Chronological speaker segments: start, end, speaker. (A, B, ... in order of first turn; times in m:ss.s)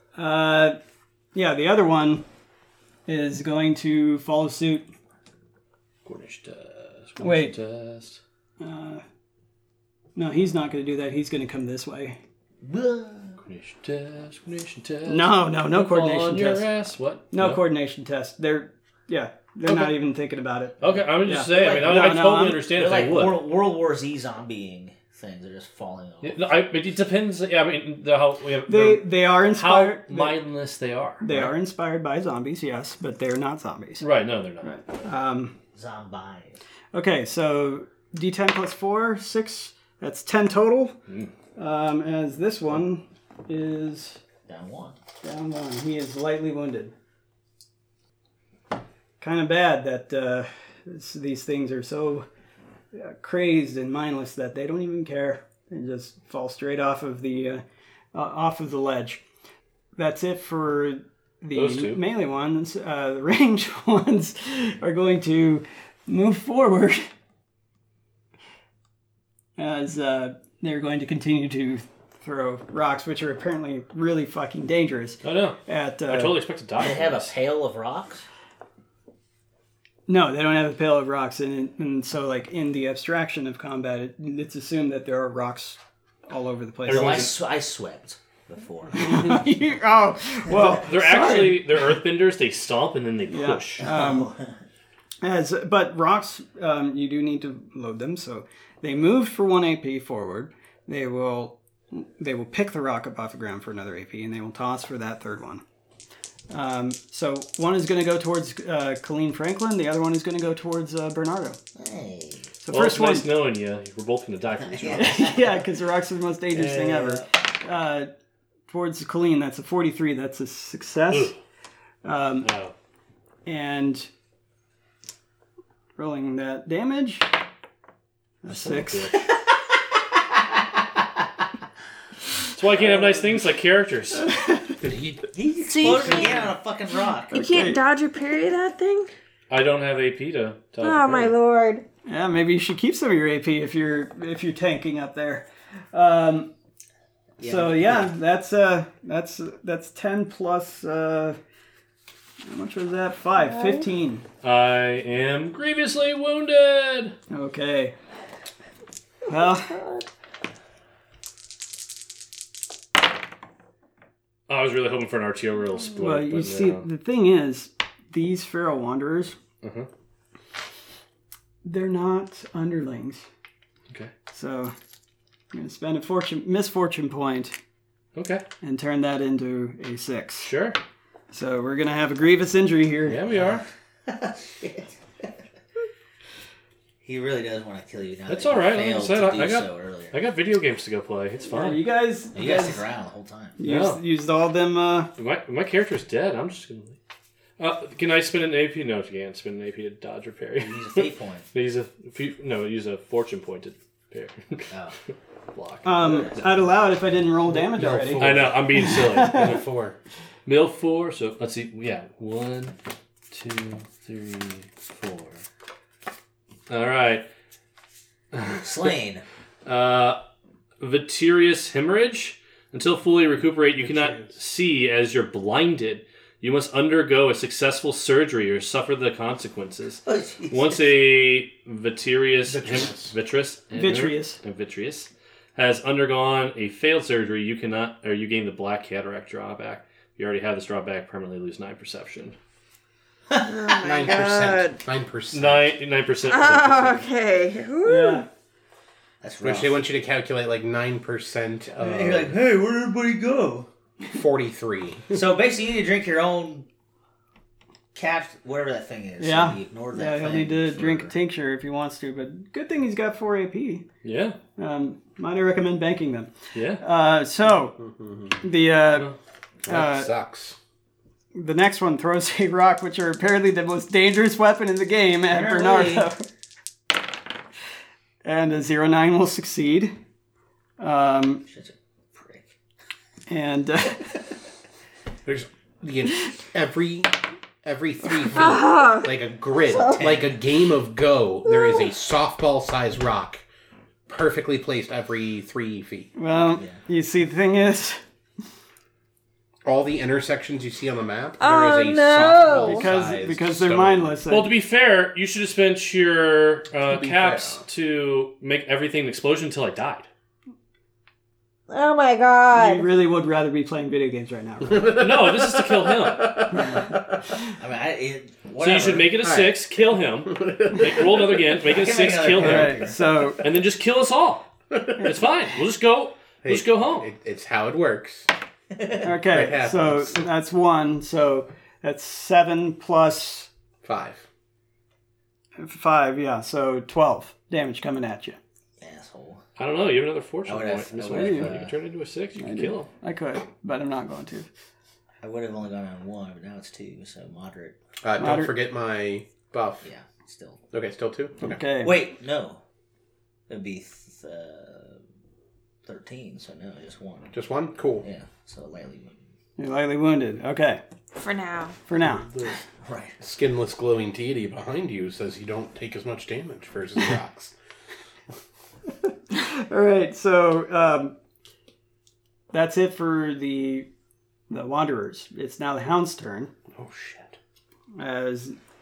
0:00.2-0:00.8 A
0:01.3-0:02.2 A
0:03.1-0:04.9 A
0:06.0-0:08.2 B
0:07.2-0:07.5 A
0:08.6-0:09.0 A
0:10.2-0:12.2 A
0:12.6-0:13.4 C
0:13.4-0:17.7 B
0:15.1-0:16.7 A
0:17.3-0:22.6 A
0:19.7-0:20.0 B
0:20.8-0:23.4 B
0:21.5-0:22.1 C
0:22.7-0:26.5 C
0:26.2-0:31.6 B
0:28.7-0:30.4 A
0:31.2-0:34.1 A
0:34.0-0:35.1 B
0:34.6-0:35.6 A
0:35.7-0:36.6 C
0:36.9-0:41.0 A
0:41.6-0:44.2 A
0:44.5-0:45.0 C
0:45.2-0:46.9 A
0:49.2-0:52.3 A
0:52.9-0:57.6 A
0:58.1-0:59.2 A
1:00.0-1:07.1 A
1:01.5-1:02.0 B
1:09.6-1:16.4 A
1:15.2-1:17.3 B
1:16.8-1:18.3 C
1:20.1-1:27.3 A
1:26.9-1:27.3 B
1:26.9-1:29.4 C
1:28.9-1:32.0 A
1:30.7-1:33.9 B
1:33.3-1:34.3 A
1:33.8-1:34.5 C
1:35.2-1:45.6 A
1:46.5-1:51.6 A
1:51.8-1:52.5 C
1:52.6-1:53.3 A
1:52.7-1:55.3 B
1:54.6-1:55.6 C
1:54.9-1:58.1 A
1:56.5-1:57.2 B
1:58.7-2:01.3 A
2:01.1-2:01.4 B
2:02.0-2:02.5 A
2:02.4-2:02.7 B
2:03.5-2:04.1 A
2:06.0-2:07.3 A
2:08.4-2:09.2 A
2:08.5-2:09.3 B
2:12.5-2:14.4 B
2:14.3-2:14.7 A
2:14.8-2:16.4 D
2:15.3-2:17.7 C
2:15.7-2:16.5 E
2:17.3-2:19.1 E
2:17.4-2:17.8 A
2:19.5-2:21.4 B
2:20.8-2:21.8 E
2:22.1-2:26.5 A
2:27.4-2:28.1 C
2:27.4-2:31.4 A
2:32.5-2:34.2 A
2:33.4-2:33.9 E
2:34.4-2:37.2 B
2:37.3-2:38.0 A
2:39.3-2:39.8 A
2:39.7-2:40.1 E
2:44.5-2:46.8 B
2:46.0-2:49.4 A
2:49.6-2:49.9 B
2:51.6-2:53.3 A
2:54.3-2:54.7 A
2:55.5-2:57.6 A
2:58.2-2:58.4 B
2:58.6-3:00.5 A
3:00.4-3:00.8 B
3:01.3-3:03.2 A
3:03.1-3:03.6 B
3:03.3-3:05.4 C
3:07.0-3:10.2 C
3:08.3-3:11.8 B
3:11.4-3:12.9 A
3:12.3-3:13.6 C
3:13.6-3:15.1 A
3:13.6-3:14.0 B
3:15.2-3:17.0 B
3:17.6-3:24.7 B
3:20.6-3:21.5 C
3:24.7-3:25.0 C
3:25.5-3:26.6 B
3:25.8-3:29.6 A
3:26.0-3:26.4 C
3:27.5-3:30.0 D
3:28.2-3:29.7 B
3:30.5-3:32.8 B
3:33.3-3:35.4 B
3:36.7-3:37.3 B
3:38.3-3:38.6 B
3:38.5-3:39.2 C
3:39.6-3:40.2 B
3:40.8-4:02.4 B
3:43.8-3:44.3 D
3:50.0-3:50.9 C
3:52.5-3:53.2 D
3:53.8-3:54.4 A
4:03.3-4:03.8 C
4:03.4-4:04.8 E
4:03.8-4:05.7 D
4:05.3-4:07.1 B
4:06.3-4:08.2 E
4:07.8-4:08.3 A
4:09.2-4:09.8 C
4:09.4-4:12.4 D
4:11.8-4:13.7 C
4:14.1-4:15.2 D
4:15.1-4:16.7 C
4:17.9-4:21.1 C
4:19.2-4:23.9 A
4:24.0-4:24.4 B
4:24.6-4:27.8 A
4:26.6-4:26.8 B
4:27.8-4:28.4 D
4:28.4-4:29.1 A
4:29.6-4:30.6 D
4:29.7-4:30.1 A
4:31.4-4:36.2 A
4:35.3-4:36.1 C
4:38.2-4:39.9 A
4:40.8-4:41.4 A
4:41.5-4:42.6 C
4:43.3-4:44.2 A
4:45.3-4:53.4 D
4:48.3-4:49.1 E
4:49.6-4:50.4 C
4:54.1-4:56.1 D
4:56.2-4:58.0 A
4:56.5-4:56.8 C
4:59.6-5:04.3 D
5:01.4-5:02.9 E
5:02.5-5:04.5 A
5:04.3-5:10.1 B
5:06.8-5:07.6 D
5:11.7-5:12.9 E
5:12.5-5:15.0 A
5:14.6-5:17.2 D
5:15.0-5:16.6 B
5:17.5-5:19.1 C
5:18.6-5:27.1 B
5:19.1-5:19.7 D
5:20.2-5:21.6 D
5:21.6-5:23.0 C
5:22.4-5:23.4 A
5:24.7-5:25.2 D
5:26.4-5:28.3 D
5:28.7-5:29.0 C
5:29.0-5:33.5 A
5:29.2-5:30.3 D
5:33.8-5:34.2 D
5:35.6-5:38.4 A
5:38.8-5:39.4 C
5:39.6-5:42.9 B
5:40.5-5:41.7 C
5:41.1-5:41.5 A
5:42.4-5:44.5 A
5:45.2-5:47.8 C
5:48.0-5:49.9 D
5:48.2-5:48.6 A
5:49.8-5:50.6 C
5:50.7-5:51.6 D
5:51.4-5:52.1 A
5:51.8-5:52.6 C
5:53.5-5:55.0 C
5:55.8-5:57.4 C
5:57.3-5:58.1 D
5:58.0-5:59.2 C
5:59.6-6:00.8 A
6:01.2-6:01.8 E
6:01.9-6:02.3 A
6:02.1-6:02.6 D
6:02.5-6:03.2 C
6:03.2-6:07.6 D
6:09.3-6:11.2 A
6:12.5-6:13.9 A
6:14.5-6:16.5 A
6:16.7-6:17.4 D
6:18.0-6:18.6 A